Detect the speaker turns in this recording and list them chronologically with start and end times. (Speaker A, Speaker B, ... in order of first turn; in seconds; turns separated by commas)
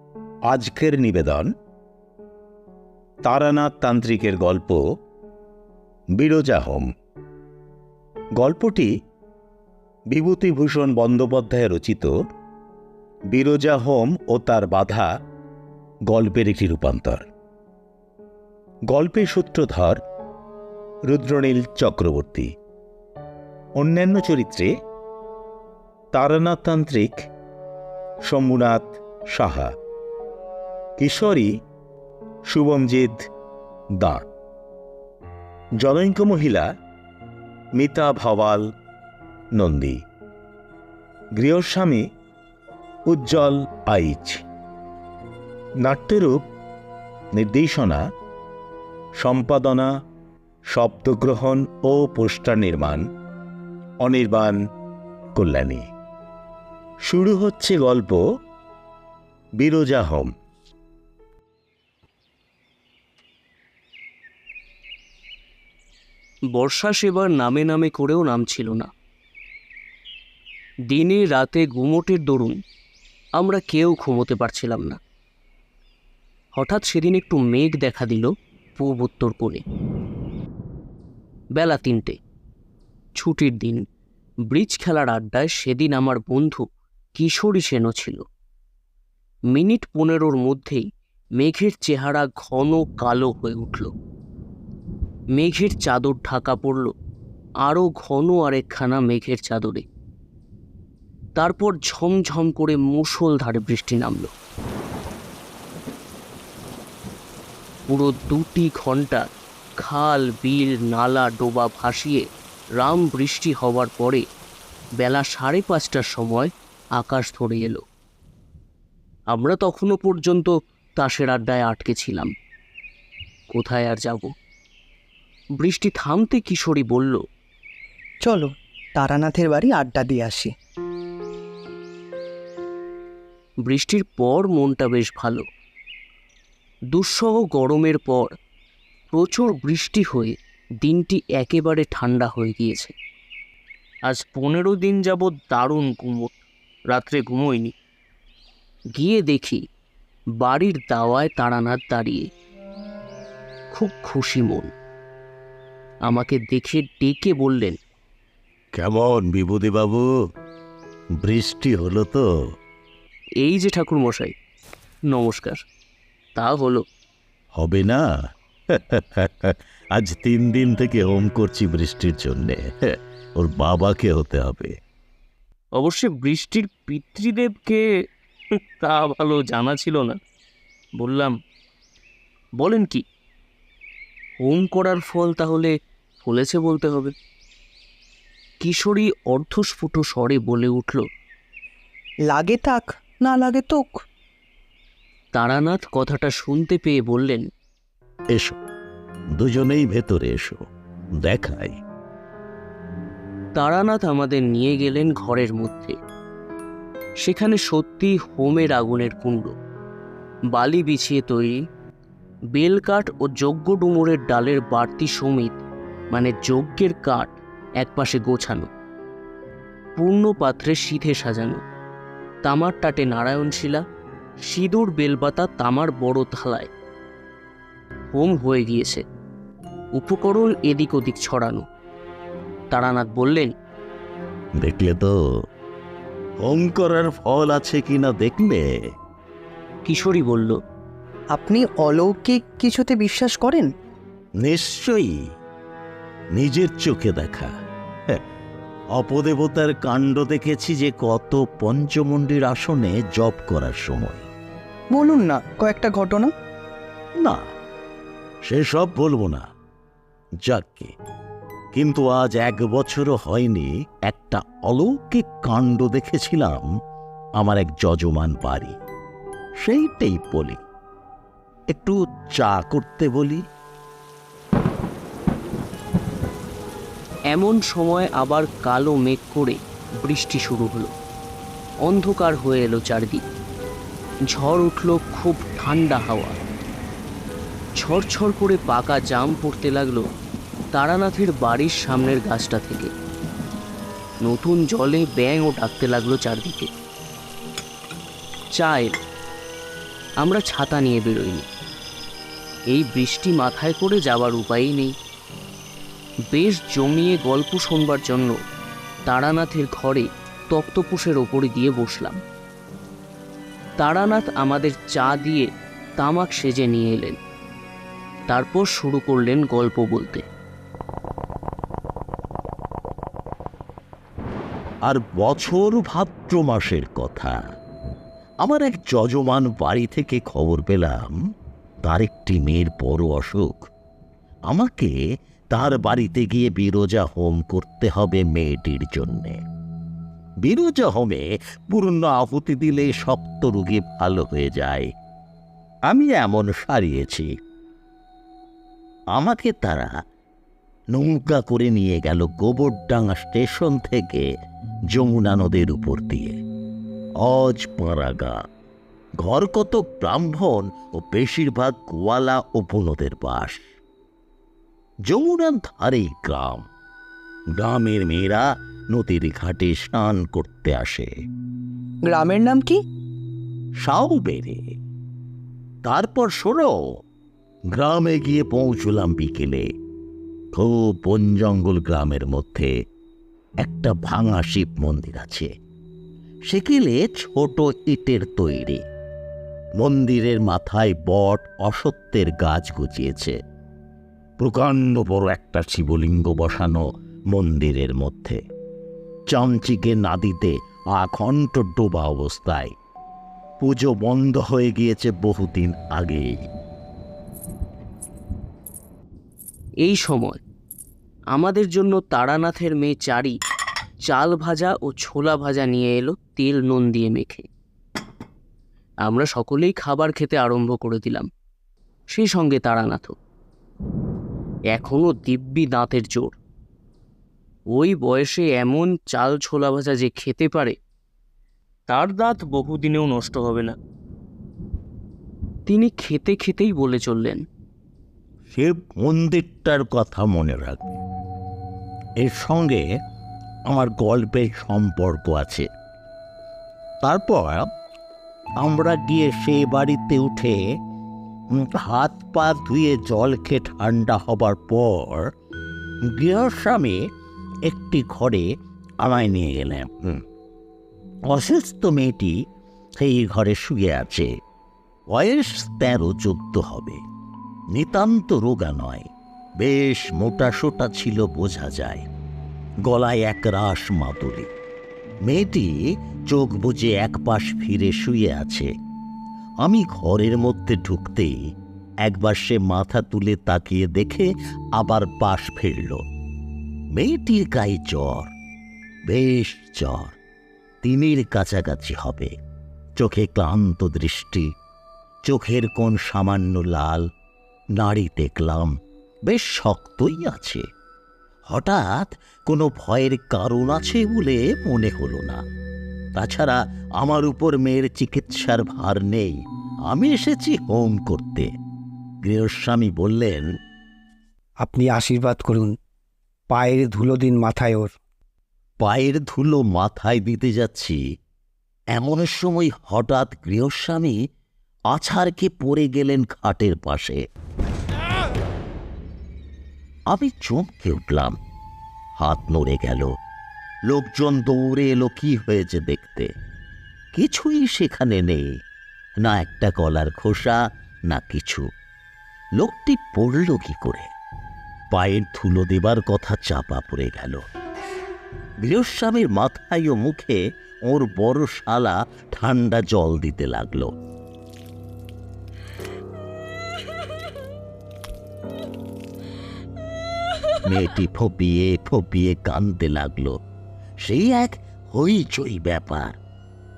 Speaker A: 0.5-1.5, Speaker A: 3.2-4.8, Speaker A: 6.2-6.9, Speaker A: 8.4-8.9, Speaker A: 10.1-12.1, Speaker A: 13.3-15.1, Speaker A: 16.1-17.2, Speaker A: 18.9-20.0, Speaker A: 21.1-22.5, Speaker A: 23.8-24.7, Speaker A: 26.1-27.3, Speaker A: 28.2-29.7, Speaker A: 31.0-31.5, Speaker A: 32.5-33.2, Speaker A: 34.0-34.3, Speaker A: 35.8-36.7, Speaker A: 37.8-38.6, Speaker A: 39.6-40.0, Speaker A: 41.4-42.0, Speaker A: 43.1-44.4, Speaker A: 45.8-46.4, Speaker A: 47.4-48.0, Speaker A: 49.2-49.9, Speaker A: 50.7-53.0, Speaker A: 54.0-54.6, Speaker A: 55.4-55.8, Speaker A: 57.1-58.2, Speaker A: 59.6-60.3, Speaker B: 66.5-68.9, Speaker B: 70.9-72.6, Speaker B: 73.4-75.0, Speaker B: 76.5-79.6, Speaker B: 81.6-82.2, Speaker B: 83.2-83.8, Speaker B: 84.5-86.6, Speaker B: 87.2-88.2, Speaker B: 89.5-90.8, Speaker B: 91.4-93.9, Speaker B: 95.3-96.9, Speaker B: 97.7-99.8, Speaker B: 101.4-104.3, Speaker B: 107.9-109.2, Speaker B: 109.8-112.2, Speaker B: 112.8-114.2, Speaker B: 115.0-117.8, Speaker B: 119.3-122.3, Speaker B: 123.5-124.3, Speaker B: 125.6-127.2, Speaker C: 128.2-130.5, Speaker B: 133.7-135.4, Speaker B: 136.9-138.3, Speaker B: 139.1-142.9, Speaker B: 144.1-146.4, Speaker B: 146.9-147.7, Speaker B: 149.0-149.6, Speaker B: 150.4-152.3, Speaker B: 153.7-154.7, Speaker B: 156.1-157.8, Speaker A: 158.7-160.1, Speaker A: 161.2-162.3, Speaker B: 163.4-164.3, Speaker B: 165.1-165.6, Speaker B: 166.3-166.8, Speaker A: 167.6-168.0, Speaker A: 168.7-172.6, Speaker A: 173.4-174.7, Speaker B: 175.8-177.8, Speaker B: 178.8-180.2, Speaker B: 181.0-181.3, Speaker B: 182.6-183.0, Speaker B: 184.4-187.1, Speaker B: 188.6-191.1, Speaker C: 192.3-194.0, Speaker B: 195.3-197.4, Speaker A: 199.4-200.6, Speaker A: 201.2-201.8, Speaker B: 203.6-206.0, Speaker B: 207.2-209.5, Speaker B: 210.5-211.6, Speaker B: 212.5-218.7, Speaker B: 220.0-221.6, Speaker B: 222.4-223.8, Speaker B: 224.5-226.7, Speaker B: 228.1-229.0, Speaker B: 229.9-231.6, Speaker B: 232.7-233.5, Speaker A: 234.6-235.2, Speaker A: 236.4-238.7, Speaker B: 239.8-240.6, Speaker C: 241.3-243.7, Speaker A: 244.4-245.1, Speaker A: 246.3-247.5, Speaker A: 249.0-254.3, Speaker C: 254.9-256.3, Speaker A: 258.5-259.4, Speaker A: 260.5-260.9, Speaker A: 261.7-266.7, Speaker A: 267.4-268.8, Speaker A: 269.6-270.6, Speaker A: 271.7-273.4, Speaker B: 277.3-280.9, Speaker B: 281.9-283.2, Speaker B: 284.3-286.4, Speaker B: 287.8-290.0, Speaker B: 290.7-292.9, Speaker B: 294.2-296.7, Speaker B: 298.6-299.0, Speaker B: 300.2-301.5, Speaker B: 302.7-304.9, Speaker B: 306.3-308.4, Speaker B: 309.1-312.2, Speaker B: 313.8-317.2, Speaker B: 318.3-320.3, Speaker A: 324.9-327.4, Speaker A: 328.4-331.2, Speaker A: 331.8-333.7, Speaker A: 334.5-334.9, Speaker A: 335.5-339.4, Speaker A: 340.4-344.9, Speaker A: 345.9-347.3, Speaker A: 349.1-349.9, Speaker A: 350.9-354.3, Speaker A: 354.9-356.4, Speaker A: 357.2-358.4, Speaker A: 359.2-363.6, Speaker A: 365.1-366.7, Speaker A: 367.6-371.1, Speaker C: 372.1-372.8, Speaker A: 373.8-374.6, Speaker A: 375.9-376.8, Speaker A: 377.7-379.7, Speaker A: 380.5-382.7, Speaker A: 383.6-385.5, Speaker A: 386.5-388.8, Speaker A: 389.8-393.4, Speaker A: 394.4-398.4, Speaker A: 399.3-402.7, Speaker A: 403.6-406.3, Speaker B: 409.8-410.4, Speaker B: 411.3-413.4, Speaker B: 414.1-417.5, Speaker B: 419.1-421.3, Speaker B: 422.1-423.2, Speaker B: 424.7-426.4, Speaker B: 427.7-430.8, Speaker B: 431.9-433.8, Speaker B: 435.7-437.4, Speaker A: 438.5-441.0, Speaker A: 442.2-442.8, Speaker A: 443.7-445.7, Speaker A: 447.0-447.7, Speaker A: 448.6-450.6, Speaker A: 451.5-455.3, Speaker A: 456.1-457.0, Speaker A: 457.7-458.5, Speaker A: 459.0-460.2, Speaker A: 461.3-462.4, Speaker A: 463.0-464.3, Speaker A: 465.1-467.0, Speaker A: 467.8-469.1, Speaker A: 469.6-472.1, Speaker A: 472.9-474.5, Speaker A: 475.3-475.8, Speaker A: 476.3-478.7, Speaker A: 479.6-481.4, Speaker A: 482.1-486.0, Speaker A: 486.9-488.3, Speaker A: 489.1-490.2, Speaker A: 490.8-492.3, Speaker A: 493.0-494.5, Speaker A: 495.2-497.1, Speaker A: 497.8-498.7, Speaker A: 499.3-500.6, Speaker A: 501.5-505.4, Speaker A: 506.2-509.4, Speaker A: 509.9-511.5, Speaker A: 512.2-513.5, Speaker D: 514.6-515.8, Speaker D: 516.5-518.0, Speaker A: 518.8-521.0, Speaker A: 522.0-524.2, Speaker A: 524.9-527.2, Speaker A: 530.1-531.4, Speaker A: 532.2-533.1, Speaker A: 533.9-536.3, Speaker A: 537.1-538.4, Speaker A: 539.2-540.6, Speaker A: 541.1-541.7, Speaker A: 542.6-544.1, Speaker A: 544.9-547.4, Speaker A: 548.6-553.9, Speaker A: 560.6-563.4, Speaker A: 564.0-566.2